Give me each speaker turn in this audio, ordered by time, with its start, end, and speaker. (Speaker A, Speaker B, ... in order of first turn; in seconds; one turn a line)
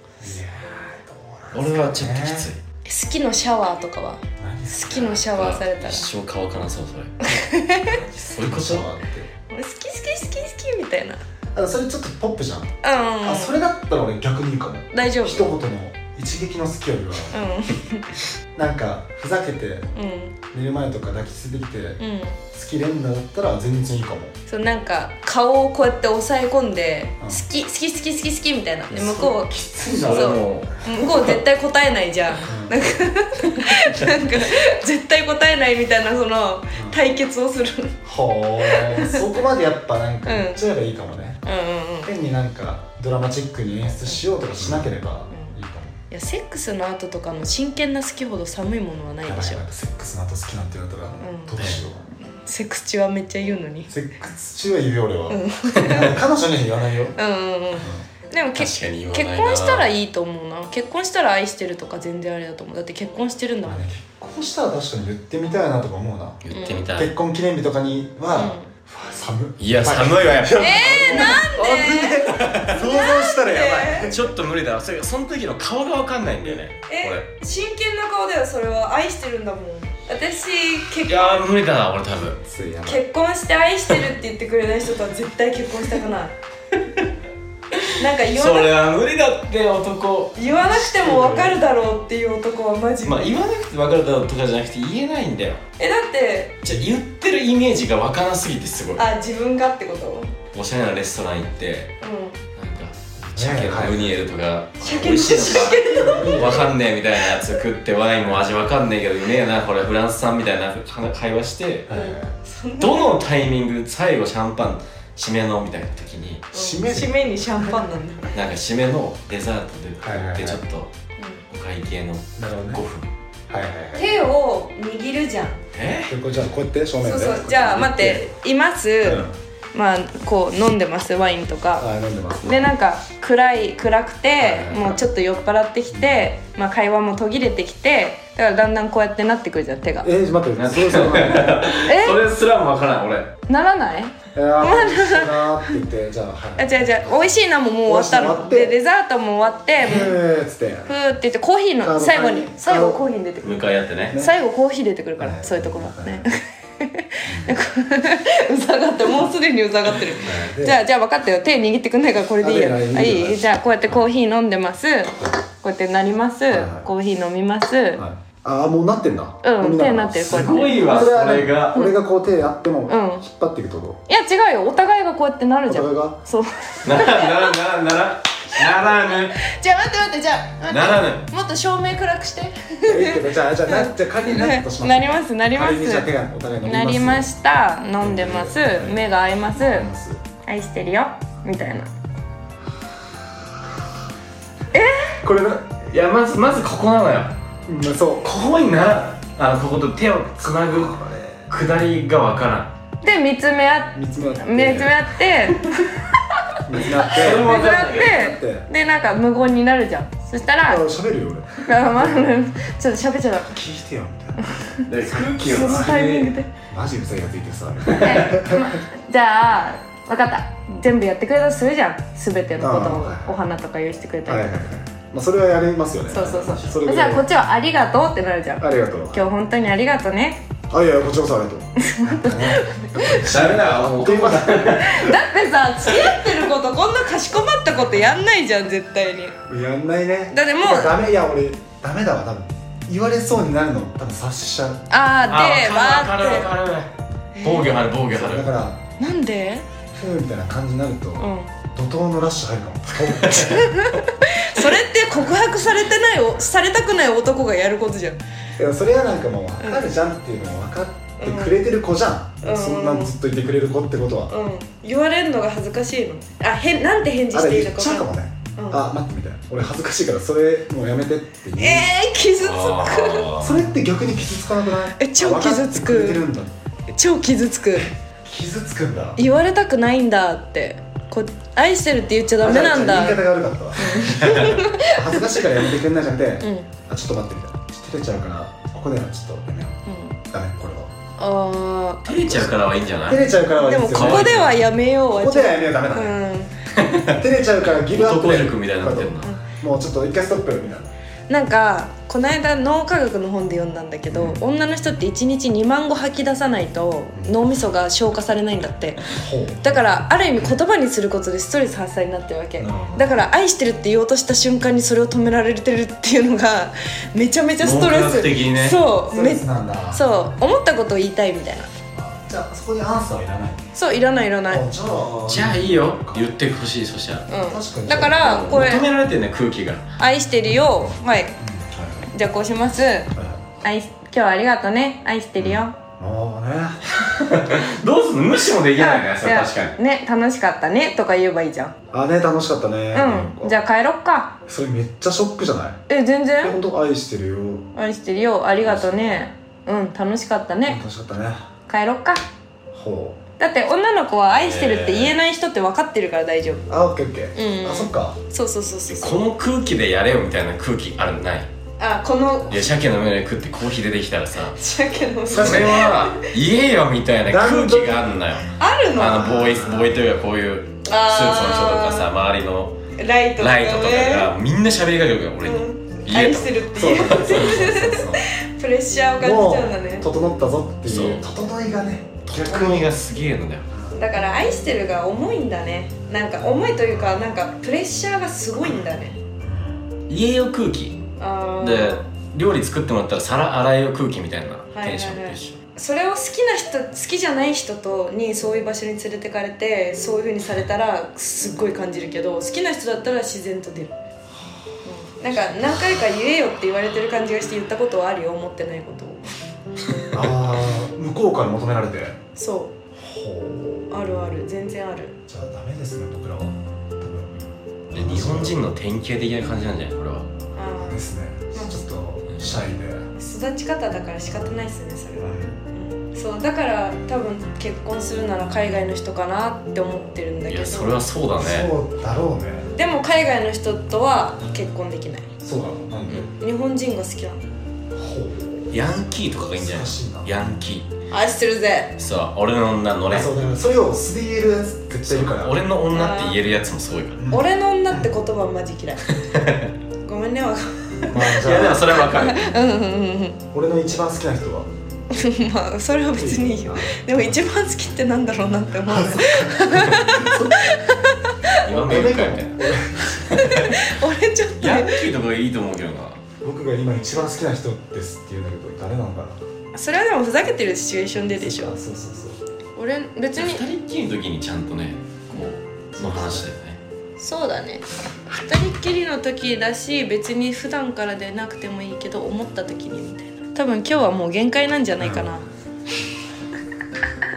Speaker A: 0.2-2.5
Speaker B: 1.5-2.6
Speaker C: 2.9-4.2
Speaker A: 4.4-5.1
Speaker C: 4.7-6.1
Speaker B: 4.9-7.2
Speaker C: 7.2-7.9
Speaker B: 7.8-8.9
Speaker A: 8.4-9.3
Speaker C: 9.5-11.2
Speaker A: 11.5-12.7
Speaker C: 12.8-13.6
Speaker A: 13.2-17.3
Speaker C: 14.9-15.6
Speaker C: 17.3-18.2
Speaker A: 18.6-19.9
Speaker C: 19.9-20.4
Speaker A: 20.5-22.0
Speaker C: 22.0-22.4
Speaker A: 22.5-24.3
Speaker C: 24.5-29.5
Speaker A: 27.2-27.5
Speaker A: 28.9-31.4
Speaker B: 29.9-30.9
Speaker C: 30.1-38.0
Speaker A: 32.4-32.9
Speaker A: 36.7-37.0
Speaker A: 38.0-41.4
Speaker C: 38.7-39.2
Speaker C: 40.2-40.6
Speaker C: 41.4-42.1
Speaker A: 42.0-46.0
Speaker C: 46.1-49.6
Speaker A: 49.2-52.1
Speaker C: 51.2-51.6
Speaker B: 51.6-51.8
Speaker C: 52.3-53.9
Speaker A: 53.9-57.2
Speaker C: 55.3-56.2
Speaker C: 57.1-63.8
Speaker A: 57.7-58.1
Speaker B: 58.5-59.9
Speaker A: 63.6-66.4
Speaker B: 66.4-67.1
Speaker C: 66.5-66.9
Speaker A: 67.0-74.3
Speaker C: 68.3-68.7
Speaker B: 69.6-71.4
Speaker C: 70.5-72.3
Speaker B: 72.2-72.9
Speaker C: 72.8-74.1
Speaker B: 74.1-77.3
Speaker C: 76.9-81.4
Speaker B: 81.0-82.4
Speaker A: 82.4-83.0
Speaker C: 82.8-86.3
Speaker C: 88.0-88.7
Speaker B: 88.3-90.5
Speaker C: 90.3-93.4
Speaker A: 90.7-91.6
Speaker B: 93.0-95.6
Speaker C: 95.8-96.6
Speaker B: 96.6-99.0
Speaker C: 99.0-100.3
Speaker B: 100.5-101.9
Speaker C: 102.0-102.4
Speaker B: 102.5-111.9
Speaker A: 103.2-104.2
Speaker C: 104.8-106.7
Speaker A: 105.7-106.7
Speaker A: 111.9-112.3
Speaker C: 111.9-113.2
Speaker B: 112.8-116.5
Speaker A: 116.5-117.7
Speaker C: 116.5-118.3
Speaker B: 118.3-120.9
Speaker A: 120.0-120.6
Speaker C: 121.2-121.4
Speaker B: 121.5-123.1
Speaker A: 122.3-122.8
Speaker A: 123.5-124.1
Speaker C: 123.9-125.6
Speaker B: 125.7-126.1
Speaker A: 126.1-128.3
Speaker C: 127.0-131.9
Speaker A: 129.0-129.3
Speaker A: 131.8-132.7
Speaker C: 132.4-140.1
Speaker A: 134.4-135.0
Speaker A: 135.9-136.3
Speaker A: 140.0-141.8
Speaker B: 140.6-143.3
Speaker C: 141.7-142.2
Speaker C: 143.5-145.8
Speaker A: 144.3-148.7
Speaker C: 146.6-150.1
Speaker A: 149.8-150.9
Speaker B: 149.8-150.1
Speaker C: 150.9-168.0
Speaker A: 151.8-153.0
Speaker B: 153.4-154.2
Speaker A: 155.2-156.3
Speaker A: 157.2-157.6
Speaker A: 160.1-160.8
Speaker A: 162.4-164.1
Speaker A: 166.5-166.9
Speaker A: 167.9-174.0
Speaker C: 169.4-170.8
Speaker B: 170.2-171.8
Speaker C: 172.9-173.2
Speaker C: 174.1-177.6
Speaker A: 175.7-176.2
Speaker B: 176.8-179.4
Speaker C: 179.4-186.1
Speaker B: 180.7-181.3
Speaker A: 182.8-187.3
Speaker C: 186.6-189.9
Speaker A: 188.0-189.0
Speaker A: 189.5-190.2
Speaker C: 190.4-191.9
Speaker C: 194.7-195.1
Speaker A: 195.2-195.7
Speaker B: 195.8-197.3
Speaker A: 197.7-198.4
Speaker B: 198.2-202.7
Speaker A: 200.7-201.5
Speaker C: 203.0-205.9
Speaker A: 203.9-205.1
Speaker A: 206.7-208.7
Speaker B: 206.9-208.3
Speaker C: 207.3-210.8
Speaker A: 210.6-212.3
Speaker C: 211.7-213.5
Speaker A: 213.5-214.5
Speaker C: 214.4-214.8
Speaker B: 214.8-216.3
Speaker A: 215.2-218.8
Speaker C: 215.4-216.5
Speaker B: 217.9-218.3
Speaker C: 217.9-224.6
Speaker A: 222.6-223.3
Speaker A: 224.2-227.3
Speaker C: 226.1-230.4
Speaker B: 226.1-226.7
Speaker A: 228.6-229.2
Speaker A: 230.7-235.0
Speaker C: 231.8-233.2
Speaker B: 233.0-235.2
Speaker C: 234.7-239.3
Speaker B: 235.8-236.2
Speaker A: 239.4-244.8
Speaker C: 240.3-241.0
Speaker C: 244.9-246.5
Speaker B: 245.3-248.5
Speaker C: 247.3-247.8
Speaker A: 247.9-248.8
Speaker C: 249.0-249.7
Speaker A: 249.9-253.7
Speaker C: 251.2-251.5
Speaker C: 253.5-258.2
Speaker A: 258.6-264.3
Speaker C: 261.2-261.6
Speaker C: 262.4-263.1
Speaker C: 264.3-268.8
Speaker A: 267.3-271.9
Speaker C: 271.6-273.3
Speaker B: 272.4-273.6
Speaker A: 273.4-276.5
Speaker C: 275.0-276.3
Speaker C: 276.9-277.9
Speaker A: 277.7-279.2
Speaker C: 279.2-283.2
Speaker A: 282.4-289.8
Speaker C: 283.8-285.2
Speaker B: 284.2-284.6
Speaker C: 286.4-286.7
Speaker C: 289.9-290.2
Speaker A: 290.3-290.9
Speaker C: 291.2-292.6
Speaker B: 292.0-293.2
Speaker A: 293.1-294.5
Speaker C: 293.6-296.5
Speaker B: 293.9-294.6
Speaker A: 295.1-296.2
Speaker B: 296.7-299.3
Speaker A: 297.1-300.9
Speaker C: 299.2-299.5
Speaker C: 301.3-309.1
Speaker A: 304.1-304.4
Speaker A: 309.1-310.6
Speaker C: 309.6-321.7
Speaker A: 312.6-313.2
Speaker B: 317.6-318.8
Speaker A: 319.1-320.1
Speaker A: 321.9-323.6
Speaker C: 323.7-324.6
Speaker A: 324.5-326.3
Speaker B: 325.3-327.3
Speaker C: 327.3-328.9
Speaker A: 327.4-328.9
Speaker B: 328.2-329.8
Speaker C: 330.0-331.3
Speaker A: 330.4-332.1
Speaker C: 332.1-333.1
Speaker A: 333.1-333.4
Speaker C: 333.6-335.8
Speaker A: 335.4-336.8
Speaker B: 337.0-339.8
Speaker C: 338.8-341.7
Speaker A: 341.9-343.6
Speaker C: 342.9-344.4
Speaker A: 344.5-345.8
Speaker C: 345.9-346.6
Speaker A: 346.4-347.6
Speaker C: 347.8-350.8
Speaker A: 348.6-349.3
Speaker A: 350.6-351.5
Speaker C: 351.7-352.2
Speaker A: 352.7-353.2
Speaker C: 353.4-356.6
Speaker B: 354.3-355.2
Speaker A: 356.7-358.2
Speaker C: 357.3-359.2
Speaker B: 358.9-361.5
Speaker C: 361.8-362.6
Speaker B: 362.5-364.6
Speaker C: 364.5-366.2
Speaker A: 365.3-366.0
Speaker B: 365.3-372.8
Speaker A: 367.2-368.1
Speaker C: 368.6-369.4
Speaker A: 369.1-370.0
Speaker C: 370.8-372.1
Speaker C: 372.9-374.3
Speaker B: 373.4-377.7
Speaker C: 375.4-380.1
Speaker A: 376.7-378.2
Speaker A: 379.2-382.9
Speaker B: 380.8-381.2
Speaker C: 380.9-381.2
Speaker B: 382.2-383.7
Speaker A: 383.7-384.0
Speaker C: 384.0-389.2
Speaker A: 386.7-387.4
Speaker A: 389.4-389.9
Speaker B: 390.1-391.0
Speaker C: 391.2-392.1
Speaker B: 391.6-395.6
Speaker C: 394.7-403.9
Speaker C: 404.8-409.2
Speaker A: 405.3-406.0
Speaker A: 410.1-412.2
Speaker C: 412.4-412.7
Speaker A: 413.0-413.9
Speaker C: 413.9-415.1
Speaker A: 415.3-418.6
Speaker B: 417.9-420.3
Speaker C: 420.5-421.8
Speaker A: 420.8-423.1
Speaker C: 423.1-431.0
Speaker A: 425.2-425.6
Speaker B: 430.5-431.7
Speaker A: 431.4-432.7
Speaker C: 432.7-435.3
Speaker A: 435.4-436.3
Speaker C: 436.1-437.4
Speaker A: 437.9-438.8
Speaker B: 438.7-440.9
Speaker A: 439.5-440.3
Speaker C: 441.1-442.0
Speaker B: 442.0-443.3
Speaker A: 443.1-445.6
Speaker B: 445.1-447.2
Speaker C: 445.9-446.4
Speaker A: 447.2-448.1
Speaker C: 447.3-449.1
Speaker B: 449.2-449.7
Speaker C: 450.0-451.1
Speaker B: 451.1-452.5
Speaker A: 451.1-452.0
Speaker C: 451.9-453.4
Speaker A: 453.5-454.7
Speaker C: 455.1-462.1
Speaker A: 456.1-457.4
Speaker A: 458.7-460.6
Speaker B: 461.6-463.9
Speaker A: 461.6-463.1
Speaker C: 463.3-465.0
Speaker B: 464.6-466.2
Speaker A: 466.4-469.4
Speaker C: 469.7-471.7
Speaker A: 471.2-472.4
Speaker C: 472.8-473.6
Speaker B: 473.3-476.8
Speaker A: 476.0-476.4
Speaker C: 476.1-476.4
Speaker C: 477.2-485.4
Speaker A: 485.0-485.3